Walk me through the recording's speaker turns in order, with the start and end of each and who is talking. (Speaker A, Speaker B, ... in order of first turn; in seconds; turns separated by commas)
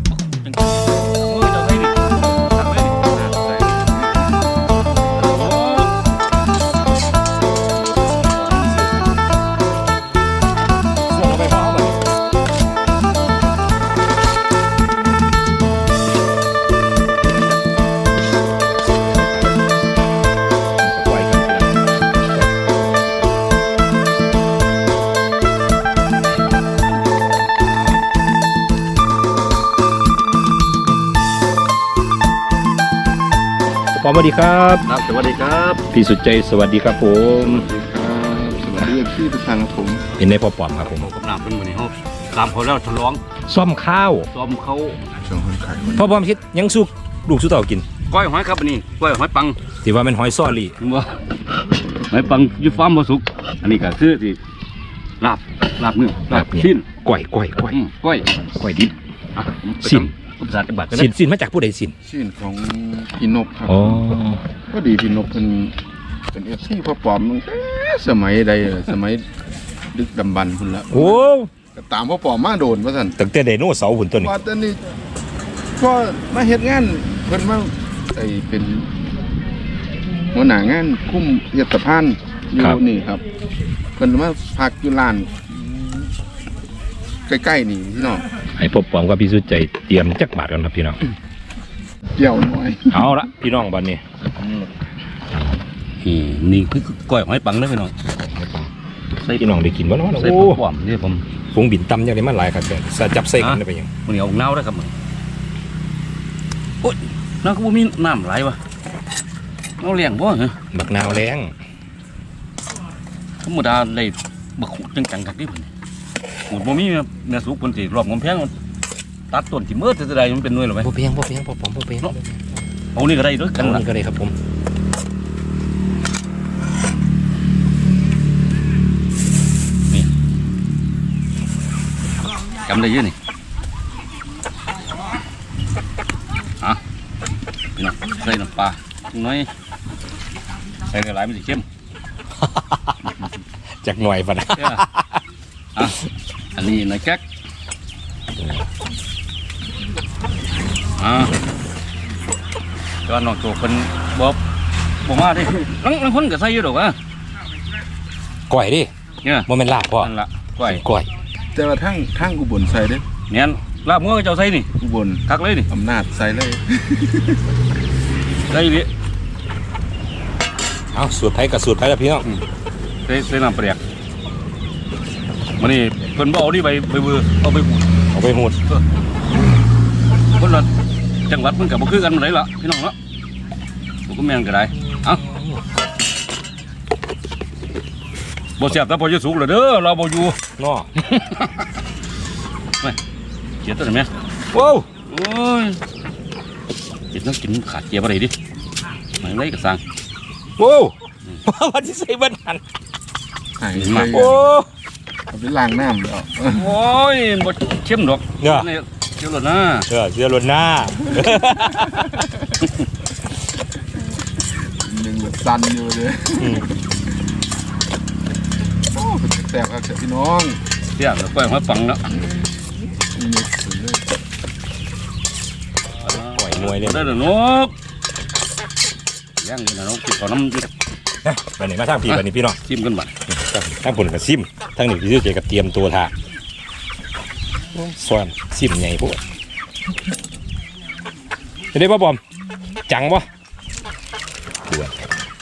Speaker A: 0.3-3.9, Speaker A: 5.1-5.9, Speaker A: 7.9-8.9, Speaker B: 11.1-12.1, Speaker B: 19.0-19.6, Speaker B: 20.8-22.7, Speaker B: 33.9-34.9, Speaker A: 34.9-35.9, Speaker B: 35.9-37.7, Speaker C: 37.5-40.1, Speaker B: 40.2-41.1, Speaker A: 40.9-43.2, Speaker B: 43.5-44.3, Speaker A: 44.3-45.0, Speaker C: 45.2-46.2, Speaker B: 46.0-47.9, Speaker A: 48.1-49.6, Speaker B: 49.8-50.8, Speaker A: 50.8-51.2, Speaker A: 52.1-54.4, Speaker A: 55.2-56.9, Speaker B: 56.3-57.8, Speaker A: 57.7-58.3, Speaker B: 58.4-58.9, Speaker A: 59.4-61.1, Speaker B: 59.8-60.1, Speaker B: 60.9-62.0, Speaker C: 62.0-65.8, Speaker B: 63.7-64.4, Speaker C: 66.3-69.3, Speaker C: 69.9-73.2, Speaker B: 70.9-71.5, Speaker B: 73.2-74.3, Speaker C: 74.2-74.8, Speaker C: 75.8-78.9, Speaker C: 80.3-83.2, Speaker C: 84.0-86.1, Speaker C: 87.3-88.2, Speaker B: 88.6-91.0, Speaker C: 92.2-93.0, Speaker B: 92.9-94.0, Speaker C: 94.4-94.7, Speaker A: 96.0-97.9, Speaker B: 98.2-98.7, Speaker B: 99.4-100.6, Speaker A: 100.2-101.2, Speaker B: 101.5-103.9, Speaker A: 103.4-104.9, Speaker A: 106.8-108.6, Speaker A: 109.8-110.6, Speaker B: 110.7-111.5, Speaker A: 113.4-115.7, Speaker A: 116.5-118.5, Speaker A: 119.3-120.9, Speaker B: 120.8-122.7, Speaker A: 123.0-123.8, Speaker B: 123.6-124.3, Speaker A: 132.6-133.2, Speaker A: 137.8-139.5, Speaker A: 140.9-141.7, Speaker B: 142.4-142.9, Speaker B: 143.8-145.2, Speaker A: 144.6-144.8, Speaker A: 146.5-147.2, Speaker B: 148.4-148.7, Speaker A: 151.0-151.3, Speaker A: 153.1-154.4, Speaker A: 155.0-157.0, Speaker B: 158.5-158.9, Speaker A: 159.2-159.5, Speaker B: 159.5-160.1, Speaker A: 160.0-160.8, Speaker B: 160.6-161.1, Speaker C: 161.5-163.1, Speaker A: 163.3-164.7, Speaker C: 164.8-167.4, Speaker A: 165.3-165.7, Speaker A: 168.5-168.9, Speaker B: 170.9-172.3, Speaker A: 173.1-173.8, Speaker A: 175.6-177.9, Speaker B: 178.1-178.6, Speaker A: 180.4-180.7, Speaker A: 181.3-182.9, Speaker A: 184.1-185.2, Speaker B: 184.8-185.6, Speaker A: 188.6-190.4, Speaker B: 190.6-190.9, Speaker A: 191.1-191.5, Speaker A: 193.6-194.1, Speaker B: 194.5-194.9, Speaker A: 195.1-195.8, Speaker A: 197.1-198.3, Speaker A: 199.2-199.8, Speaker B: 200.6-202.6, Speaker C: 203.6-204.5, Speaker A: 203.8-204.1, Speaker B: 204.1-204.7, Speaker C: 205.3-206.7, Speaker A: 206.5-209.9, Speaker B: 208.4-208.7, Speaker B: 209.9-212.3, Speaker C: 211.2-212.2, Speaker A: 212.6-212.9, Speaker C: 214.6-216.8, Speaker B: 216.4-216.7, Speaker C: 218.9-220.6, Speaker A: 221.0-222.1, Speaker C: 222.1-222.5, Speaker C: 223.1-224.1, Speaker A: 226.0-227.7, Speaker B: 226.1-227.2, Speaker A: 229.4-230.7, Speaker B: 231.2-232.6, Speaker A: 232.1-233.2, Speaker B: 233.3-236.1, Speaker B: 237.7-239.2, Speaker B: 241.7-242.2, Speaker B: 242.9-243.3, Speaker B: 244.7-245.2